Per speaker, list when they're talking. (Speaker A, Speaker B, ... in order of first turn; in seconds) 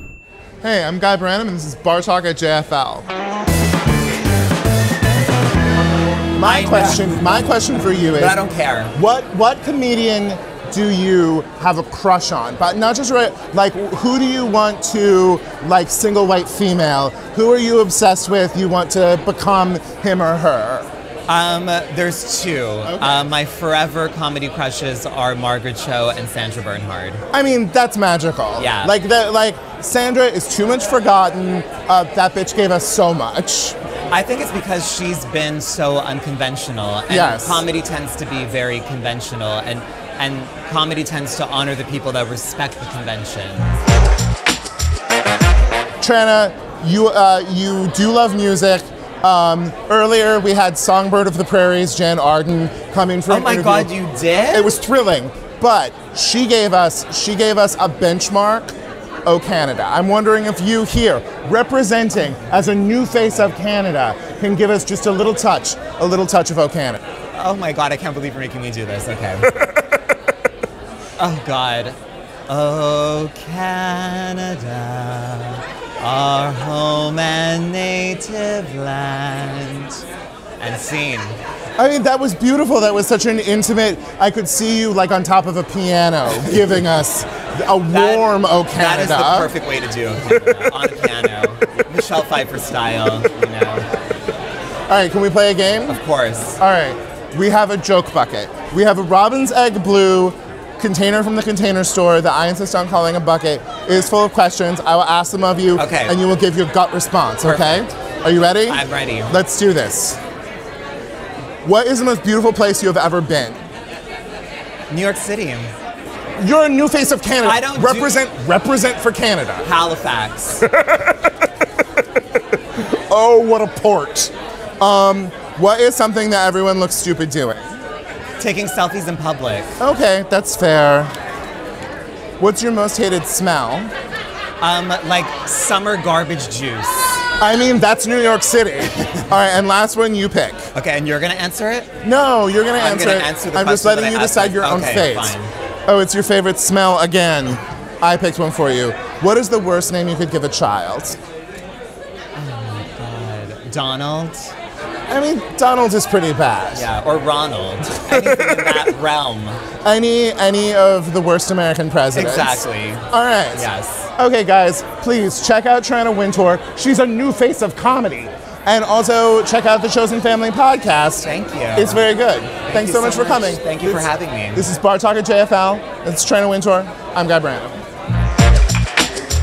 Speaker A: 0.6-3.1, 6.3-8.4, 8.9-20.9, 22.9-23.2, 27.3-33.8, 37.1-37.6, 46.0-53.9, 54.5-58.7, 59.3-67.0, 81.8-89.5, 90.3-90.9, 94.9-96.0, 96.6-110.2, 111.6-113.6, 116.4-119.7, 120.6-121.4, 122.8-127.7, 129.8-131.1, 132.4-133.9, 137.4-140.7, 142.0-145.4, 145.9-151.2, 155.1-156.9, 158.1-158.9, 159.8-177.8
Speaker B: 6.4-7.2, 8.1-8.9, 21.3-27.2, 28.6-28.9, 34.1-43.7, 53.3-54.7, 67.3-69.5, 71.2-72.0, 72.5-80.0, 80.6-81.4, 87.9-93.9, 95.9-96.6, 105.8-106.2, 107.4-107.9, 108.7-109.3, 114.9-115.7, 117.4-118.2, 119.7-120.7, 128.4-129.7, 134.6-137.3, 140.7-141.9, 142.8-145.5, 152.3-154.5, 156.8-159.6, 162.1-164.1, 171.2-172.0, 172.7-174.7